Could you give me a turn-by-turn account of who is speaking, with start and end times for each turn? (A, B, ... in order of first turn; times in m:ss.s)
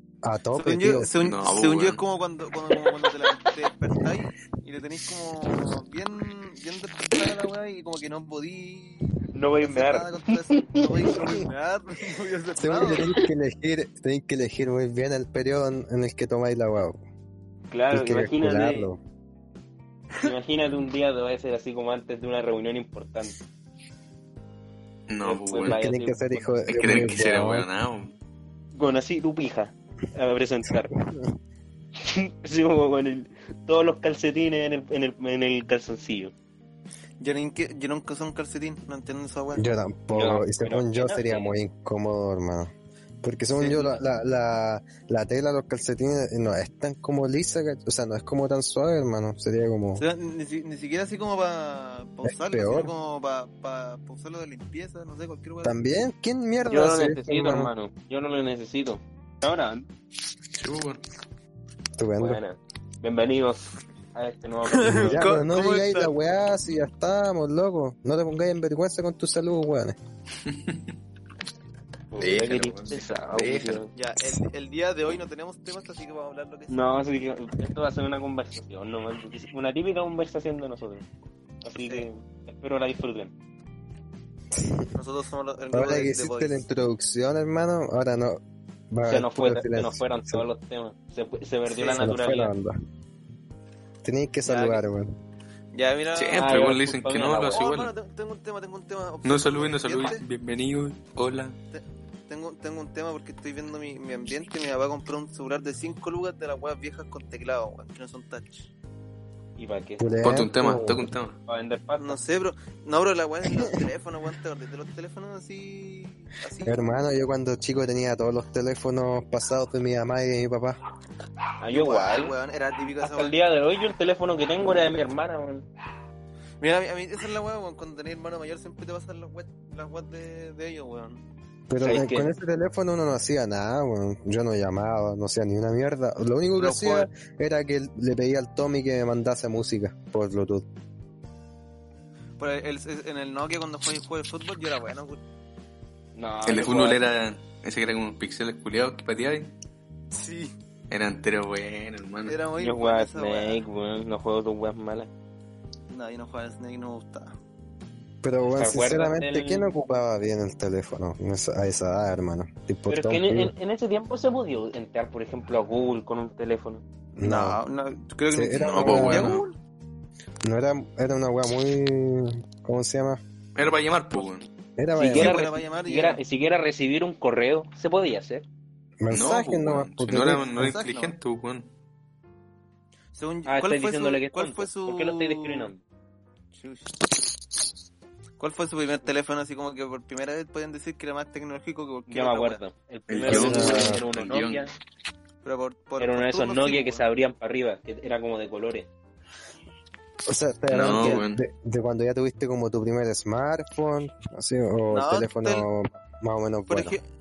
0:00.2-0:01.1 A
0:00.6-0:13.1 B
0:01.2-0:02.0 C
0:09.3-0:11.1 D
0:12.6-0:17.0 A
0:17.7-0:18.9 D
0:17.9-0:19.0 A
0:20.2-0:23.4 D
0:25.1-0:25.8 C
0:25.2-0:26.4 D
0:25.7-0:27.7 A
0:26.7-0:28.1 C
0:28.7-0:30.9 D
0:30.7-0:31.4 A
0:32.0-0:36.3 D
0:37.2-0:39.6 B
0:39.5-0:50.0 A
0:40.1-0:41.5 D
0:43.6-0:44.0 B
0:50.0-0:55.8 B
0:52.2-0:52.9 A
0:55.6-0:57.7 A
0:56.6-0:59.9 D
1:00.5-1:01.0 C
1:02.0-1:02.4 A
1:02.2-1:05.3 D
1:04.7-1:06.1 B
1:04.9-1:10.0 A
1:10.4-1:10.9 C
1:12.1-1:13.9 D
1:12.2-1:13.8 C
1:13.9-1:16.8 B
1:16.7-1:21.0 D
1:21.6-1:23.3 D
1:24.5-1:24.9 A
1:24.9-1:26.6 B
1:25.7-1:30.4 A
1:29.0-1:32.5 D
1:31.7-1:32.1 B
1:31.9-1:32.8 A
1:34.0-1:35.1 A
1:34.5-1:34.8 B
1:35.7-1:36.6 B
1:36.1-1:37.9 C
1:36.4-1:37.7 D
1:37.5-1:40.2 B
1:39.2-1:41.6 C
1:41.7-1:48.7 B
1:49.6-1:50.1 D
1:50.0-1:51.1 A
1:50.2-1:51.4 C
1:51.5-1:52.2 D
1:52.0-1:57.0 B
1:56.6-2:00.8 A
2:01.6-2:02.3 D
2:01.7-2:03.4 B
2:03.0-2:05.6 D
2:06.6-2:11.2 B
2:11.7-2:20.6 A
2:11.8-2:12.3 D
2:16.6-2:17.1 B
2:22.4-2:25.2 B
2:26.1-2:27.1 D
2:26.4-2:29.5 C
2:30.1-2:30.5 B
2:30.9-2:32.4 C
2:32.2-2:33.6 B
2:32.6-2:35.1 D
2:35.9-2:37.3 B
2:38.2-2:43.5 A
2:38.6-2:39.7 D
2:42.9-2:46.8 D
2:47.2-2:47.6 A
2:47.2-2:49.6 B
2:48.3-2:49.4 A
2:48.6-2:49.4 C
2:50.4-2:53.2 A
2:53.5-2:54.5 C
2:54.8-2:55.4 A
2:54.9-2:58.4 D
2:55.1-2:56.2 B
2:59.0-3:00.8 A
2:59.1-3:01.7 C
3:00.6-3:01.2 B
3:03.1-3:05.7 B
3:03.4-3:05.8 D
3:06.5-3:07.0 B
3:08.4-3:12.6 B
3:12.1-3:14.7 D
3:13.1-3:14.6 C
3:13.3-3:14.0 A
3:15.4-3:17.0 B
3:16.0-3:18.9 D
3:20.3-3:27.0 A
3:20.7-3:21.4 C
3:24.9-3:25.6 B
3:26.7-3:27.0 B